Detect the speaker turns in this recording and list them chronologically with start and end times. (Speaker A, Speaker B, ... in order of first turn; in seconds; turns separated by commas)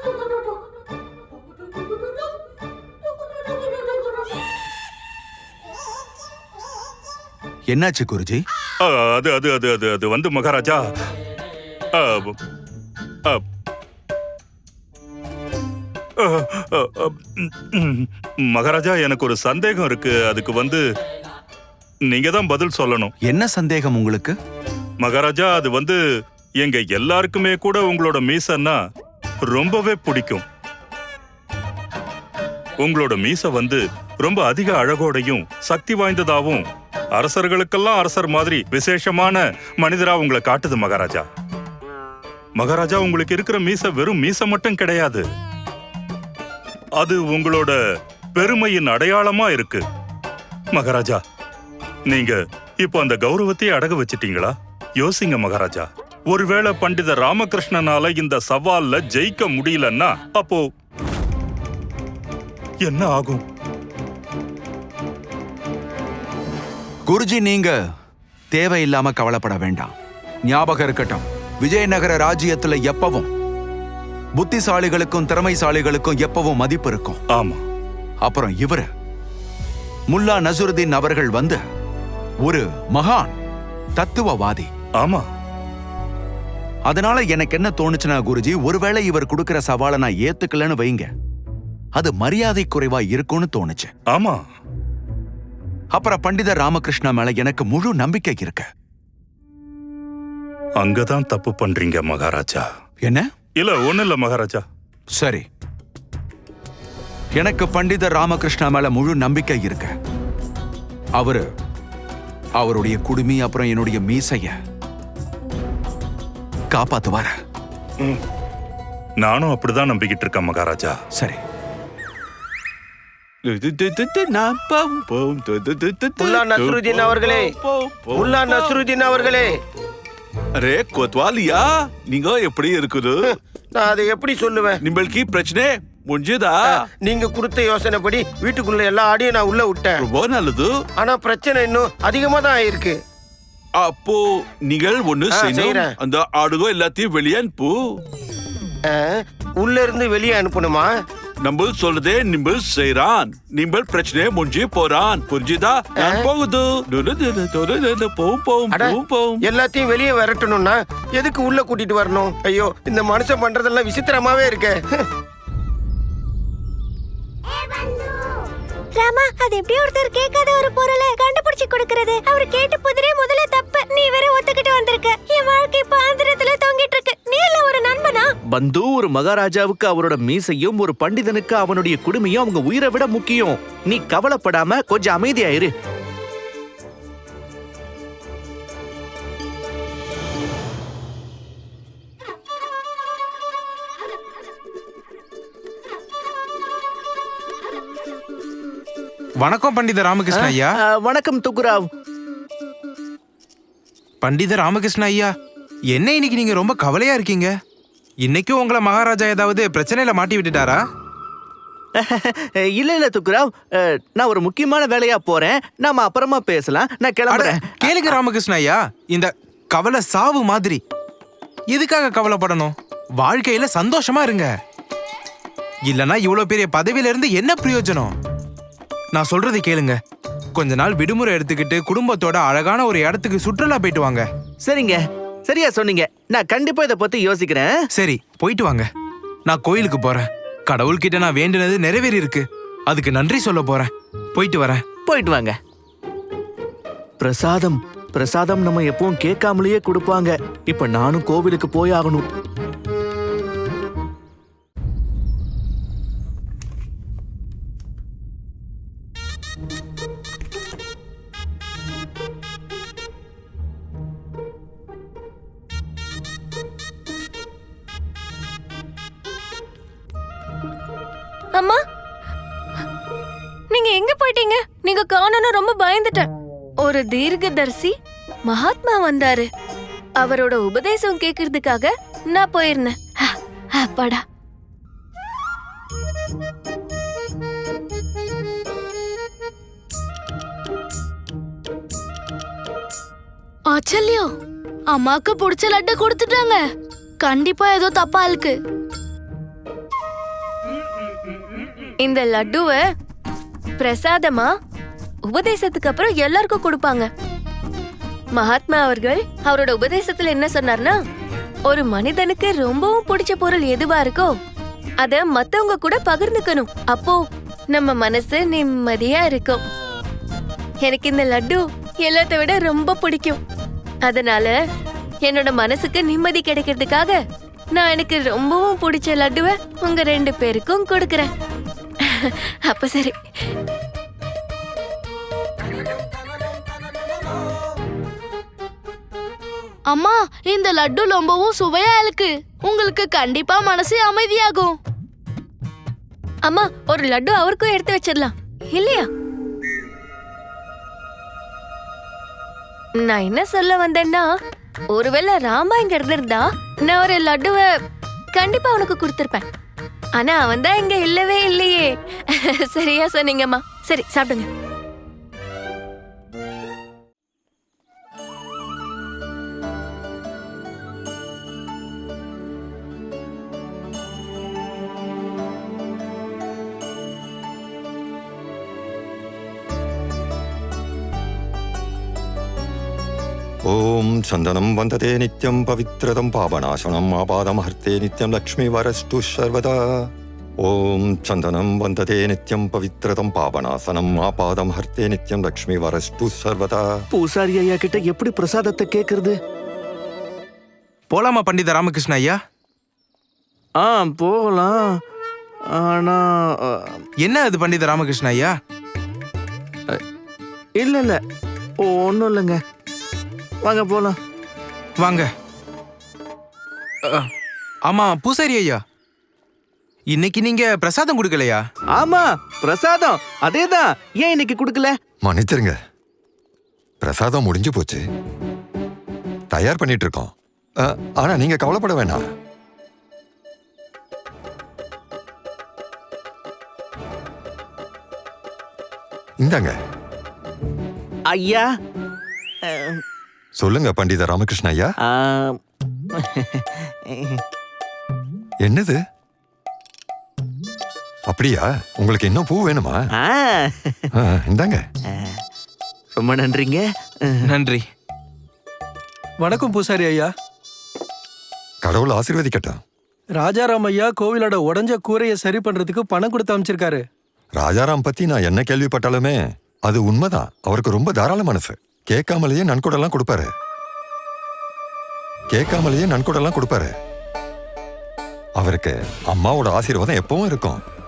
Speaker A: 7.7-8.4, Speaker B: 8.8-10.8, Speaker B: 12.0-12.4, Speaker B: 16.2-20.8, Speaker B: 22.1-23.1, Speaker A: 23.3-24.4, Speaker B: 25.0-26.0, Speaker B: 26.6-28.8, Speaker B: 29.5-30.4, Speaker B: 32.8-36.6, Speaker B: 37.2-41.2, Speaker B: 42.6-45.2, Speaker B: 47.0-47.8, Speaker B: 48.4-49.8, Speaker B: 50.8-51.2, Speaker B: 52.1-60.6, Speaker B: 62.9-63.4, Speaker A: 67.1-67.7, Speaker A: 68.5-69.9, Speaker A: 70.5-73.3, Speaker A: 74.4-77.2, Speaker B: 77.3-77.6, Speaker A: 78.2-78.9, Speaker A: 80.1-81.6, Speaker A: 82.5-83.3, Speaker A: 84.0-84.7, Speaker B: 85.0-85.2, Speaker A: 86.9-91.1, Speaker A: 92.0-93.9, Speaker B: 94.1-94.4, Speaker A: 95.9-98.7, Speaker B: 100.8-102.6, Speaker B: 103.6-104.6, Speaker A: 105.2-105.5, Speaker A: 107.3-109.9, Speaker A: 112.6-114.6, Speaker A: 116.7-117.3, Speaker B: 119.2-121.0, Speaker C: 123.5-128.8, Speaker D: 126.2-127.5, Speaker D: 128.2-129.5, Speaker C: 130.6-133.2, Speaker D: 133.3-134.8, Speaker C: 134.8-136.8, Speaker D: 136.7-140.1, Speaker C: 140.0-140.7, Speaker D: 141.0-143.0, Speaker C: 143.8-148.0, Speaker D: 145.3-145.9, Speaker D: 148.9-150.9, Speaker C: 151.4-159.4, Speaker D: 156.0-156.3, Speaker D: 158.7-164.8, Speaker E: 167.8-168.1, Speaker E: 169.0-178.3, Speaker F: 178.5-185.7, Speaker G: 199.4-200.8, Speaker F: 200.3-201.9, Speaker G: 204.2-205.3, Speaker G: 205.9-207.5, Speaker G: 208.2-210.8, Speaker F: 212.0-218.2, Speaker G: 217.3-220.8, Speaker G: 221.7-224.5, Speaker G: 225.9-228.1, Speaker G: 229.1-230.0, Speaker G: 230.6-234.3, Speaker F: 234.6-237.8, Speaker G: 237.9-238.9, Speaker G: 239.5-244.8, Speaker F: 245.1-245.6, Speaker F: 247.2-252.3, Speaker H: 271.5-271.8, Speaker H: 273.7-276.3, Speaker H: 276.8-277.9, Speaker H: 278.5-279.5, Speaker H: 280.2-284.2, Speaker I: 293.7-294.3, Speaker I: 294.9-296.6, Speaker I: 297.2-298.5, Speaker H: 302.0-302.8, Speaker H: 303.8-304.5, Speaker H: 305.3-307.1, Speaker H: 308.4-311.0, Speaker H: 311.7-314.3, Speaker H: 315.0-317.2, Speaker H: 317.7-319.6, Speaker H: 320.8-323.4, Speaker H: 324.1-324.6, Speaker H: 325.3-327.2, Speaker H: 327.8-331.3, Speaker H: 332.1-333.2, Speaker I: 339.9-344.7, Speaker H: 346.5-349.1, Speaker H: 353.0-354.3, Speaker H: 354.9-357.6, Speaker H: 358.4-359.4, Speaker H: 360.2-364.5, Speaker J: 383.7-389.8, Speaker J: 390.6-396.9, Speaker F: 397.1-399.4, Speaker G: 401.1-402.4, Speaker F: 403.8-404.9, Speaker F: 405.7-407.0, Speaker G: 407.2-408.5, Speaker F: 410.8-411.2, Speaker F: 411.8-412.6, Speaker F: 413.6-414.2, Speaker G: 415.0-415.3, Speaker G: 417.9-418.8, Speaker G: 420.1-421.6, Speaker F: 421.9-424.9, Speaker J: 425.2-425.8, Speaker J: 427.0-428.0, Speaker J: 429.5-430.3, Speaker J: 430.8-432.2, Speaker J: 439.4-439.8, Speaker F: 441.3-441.7, Speaker F: 442.6-443.0, Speaker J: 443.6-444.9, Speaker F: 445.1-445.6, Speaker F: 446.3-446.6, Speaker J: 448.6-449.0, Speaker J: 451.3-453.0, Speaker F: 453.2-454.1, Speaker J: 454.2-454.8, Speaker F: 456.1-457.5, Speaker G: 457.5-457.8, Speaker K: 459.4-460.3, Speaker J: 461.8-462.8, Speaker K: 463.4-467.0, Speaker J: 467.6-473.5, Speaker J: 475.5-476.9, Speaker J: 478.6-480.8